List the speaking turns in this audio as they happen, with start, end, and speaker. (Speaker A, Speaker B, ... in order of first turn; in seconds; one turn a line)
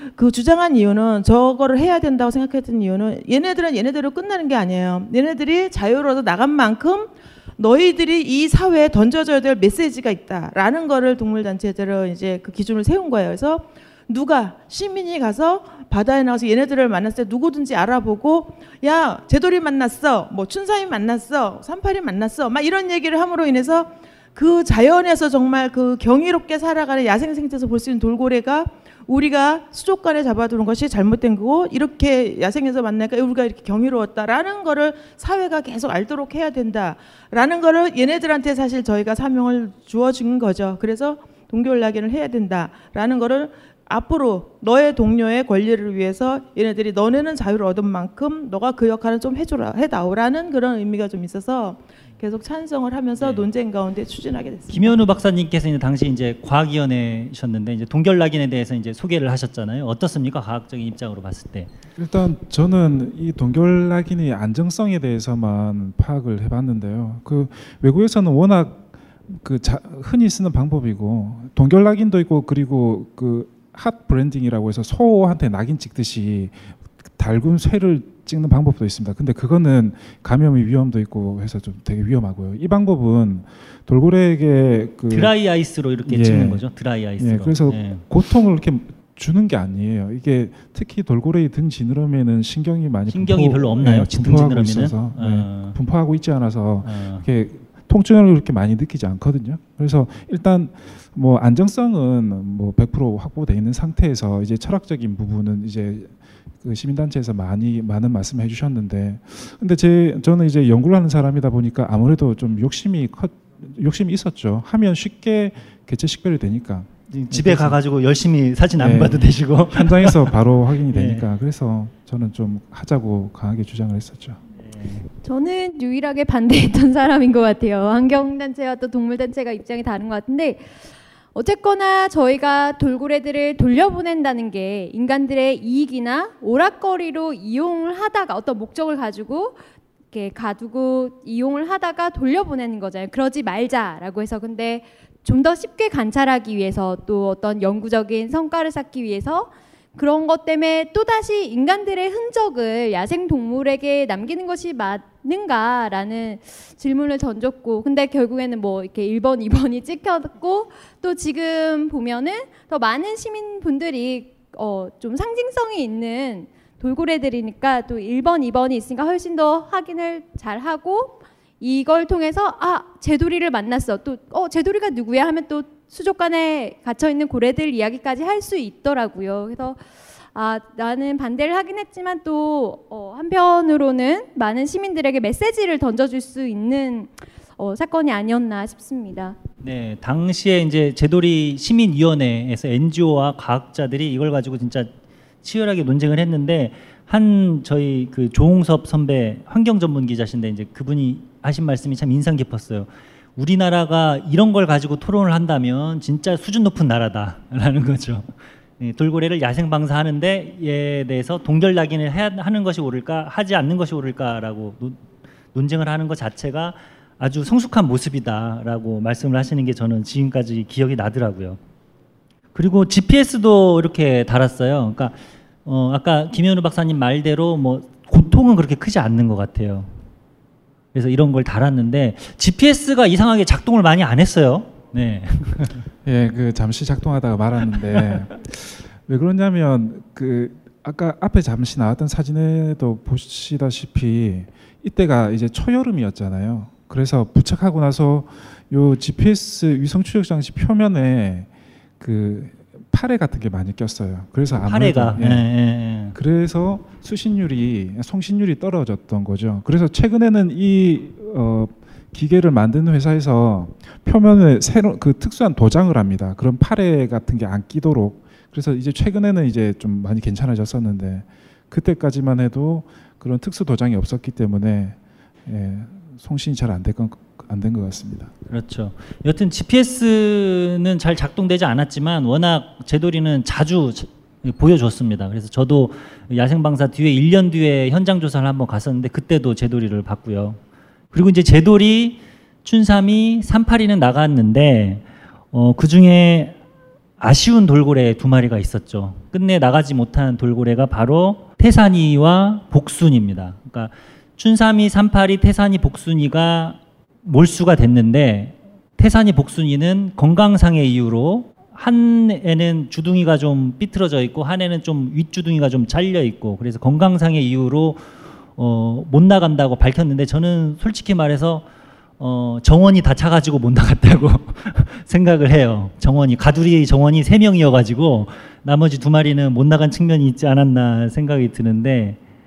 Speaker A: 0.2-55.0
Speaker B: 53.2-53.5
Speaker B: 54.7-61.7
Speaker C: 62.0-85.3
Speaker B: 85.1-88.0
Speaker C: 86.1-86.7
Speaker C: 87.2-117.8
Speaker B: 93.1-95.8
Speaker B: 96.8-97.3
Speaker B: 117.1-120.4
Speaker C: 118.8-124.4
Speaker B: 120.9-121.3
Speaker B: 124.6-125.1
Speaker D: 125.2-130.7
Speaker D: 131.3-139.6
Speaker D: 140.1-179.8
Speaker D: 180.3-189.4
Speaker B: 189.6-194.9
Speaker B: 195.4-215.0
Speaker B: 215.5-221.6
Speaker B: 222.6-229.9
Speaker B: 230.9-235.9
Speaker C: 236.0-251.5
Speaker C: 252.0-255.5
Speaker B: 254.6-256.2
Speaker C: 256.1-278.3
Speaker B: 278.5-290.6
Speaker B: 291.1-296.6
Speaker B: 297.2-318.1
Speaker B: 318.6-321.6
Speaker B: 322.2-332.2